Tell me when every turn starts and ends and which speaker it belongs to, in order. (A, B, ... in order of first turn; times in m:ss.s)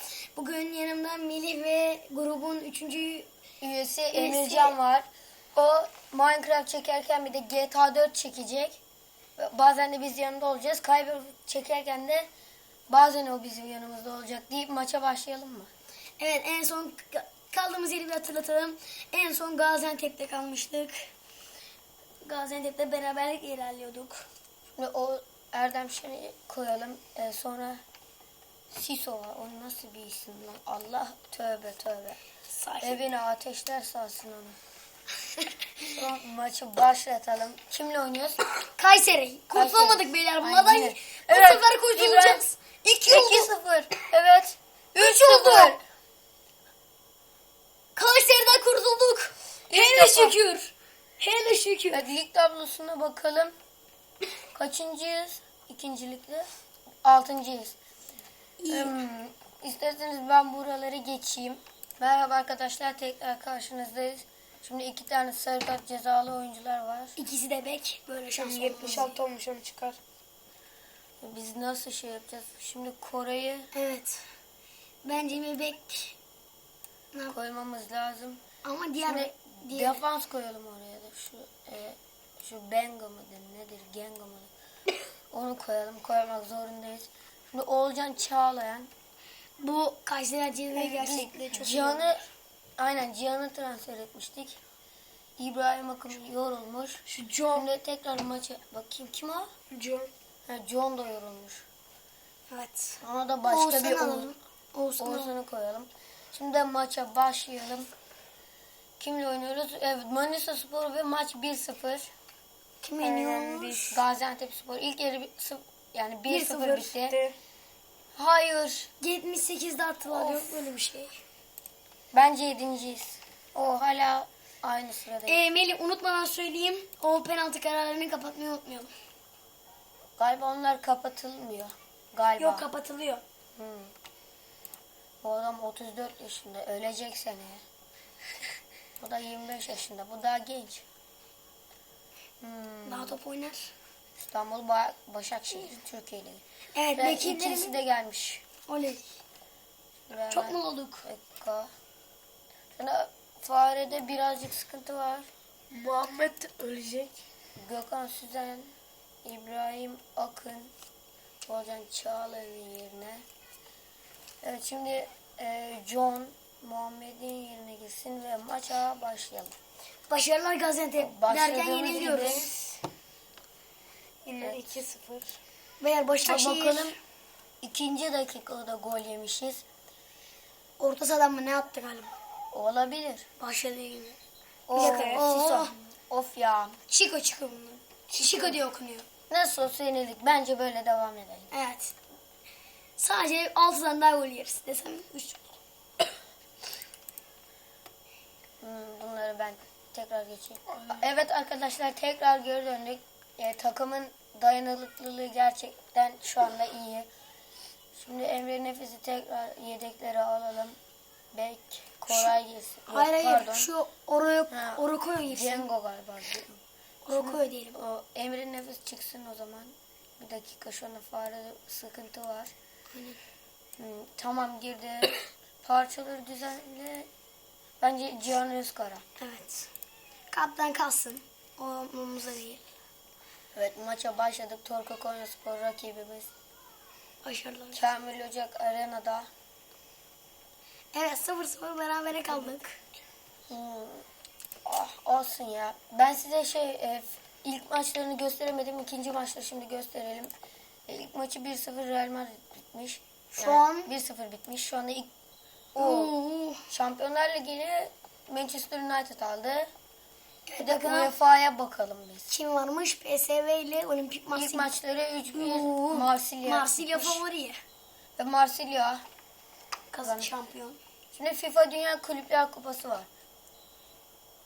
0:00.3-0:03.3 A
0:03.6-0:08.8 B
0:04.1-0:04.8 A
0:09.4-0:12.3 B
0:12.9-0:15.7 B
0:16.2-0:21.0 A
0:22.2-0:24.3 A
0:24.8-0:27.8 B
0:28.7-0:32.2 B
0:32.5-0:33.0 A
0:32.8-0:34.6 B
0:35.9-0:38.5 B
0:38.8-0:43.5 A
0:39.5-0:42.4 B
0:43.1-0:45.8 B
0:45.0-0:45.8 A
0:48.0-0:52.0 A
0:49.7-0:50.4 B
0:51.9-0:53.5 B
0:54.5-0:56.5 B
0:57.0-0:57.8 B
0:58.6-0:59.0 A
0:58.7-1:07.2 B
1:07.2-1:09.1 A
1:08.4-1:10.0 C
1:11.2-1:13.7 B
1:13.7-1:14.2 A
1:15.0-1:16.2 A
1:17.3-1:18.4 B
1:18.6-1:20.0 A
1:19.1-1:24.5 B
1:25.3-1:28.9 B
1:29.6-1:32.2 A
1:30.8-1:31.2 C
1:30.9-1:32.2 B
1:32.8-1:34.6 B
1:35.4-1:37.0 B
1:37.1-1:37.7 C
1:37.5-1:39.5 B
1:39.7-1:40.1 C
1:40.5-1:41.6 B
1:42.5-1:45.3 A
1:43.0-1:44.3 B
1:45.0-1:47.9 B
1:49.0-1:52.1 B
1:52.8-1:53.9 A
1:53.0-1:57.2 B
1:53.2-1:54.0 C
1:56.3-1:56.9 A
1:56.4-1:57.4 C
1:58.2-1:58.9 B
1:59.0-2:01.1 A
2:00.1-2:00.7 B
2:02.1-2:05.4 B
2:05.3-2:08.9 A
2:10.2-2:12.7 B
2:12.4-2:13.2 A
2:13.6-2:13.9 B
2:15.2-2:17.6 B
2:19.0-2:20.9 B
2:22.4-2:23.2 B
2:22.9-2:23.7 A
2:24.2-2:26.4 B
2:26.8-2:27.8 A
2:27.0-2:28.4 B
2:28.7-2:29.0 A
2:30.1-2:31.7 B
2:30.3-2:31.1 A
2:32.8-2:35.3 B
2:35.7-2:37.2 C
2:37.6-2:40.7 B
2:41.5-2:43.2 B
2:44.4-2:49.6 B
2:50.1-2:52.5 A
2:51.0-2:52.5 B
2:51.9-2:52.8 C
2:54.2-2:55.4 C
2:54.4-2:54.8 B
2:55.8-2:57.0 A
2:56.2-2:57.0 B
2:57.6-2:59.6 B
3:00.8-3:02.1 A
3:02.5-3:03.3 B
3:03.4-3:04.2 A
3:04.7-3:06.8 B
3:04.8-3:05.2 C
3:04.8-3:05.7 A
3:06.9-3:09.1 A
3:08.1-3:08.6 C
3:09.3-3:11.5 B
3:11.5-3:12.0 A
3:13.0-3:15.4 A
3:18.6-3:27.1 B
3:20.7-3:21.0 C
3:28.0-3:30.8 B
3:31.3-3:33.7 B
3:32.1-3:32.4 A
3:32.9-3:35.7 A
3:34.5-3:42.5 B
3:37.1-3:37.8 A
3:42.9-3:43.2 A
3:43.8-3:47.1 B
3:47.8-3:49.0 B
3:49.2-3:49.7 A
3:50.3-3:52.6 A
3:53.6-3:56.3 B
3:57.2-3:57.8 A
3:57.7-3:59.3 B
4:00.9-4:02.8 A
4:03.5-4:04.0 B
4:04.6-4:10.3 B
4:10.9-4:15.1 B
4:13.3-4:13.9 A
4:15.8-4:16.1 B
4:15.8-4:16.6 A
4:16.7-4:19.7 B
4:20.5-4:21.1 A
4:20.6-4:22.3 B
4:22.3-4:24.7 A
4:24.3-4:27.2 B
4:25.3-4:27.6 A
4:28.2-4:29.0 B
4:29.9-4:30.8 A
4:30.0-4:30.3 B
4:31.1-4:33.1 B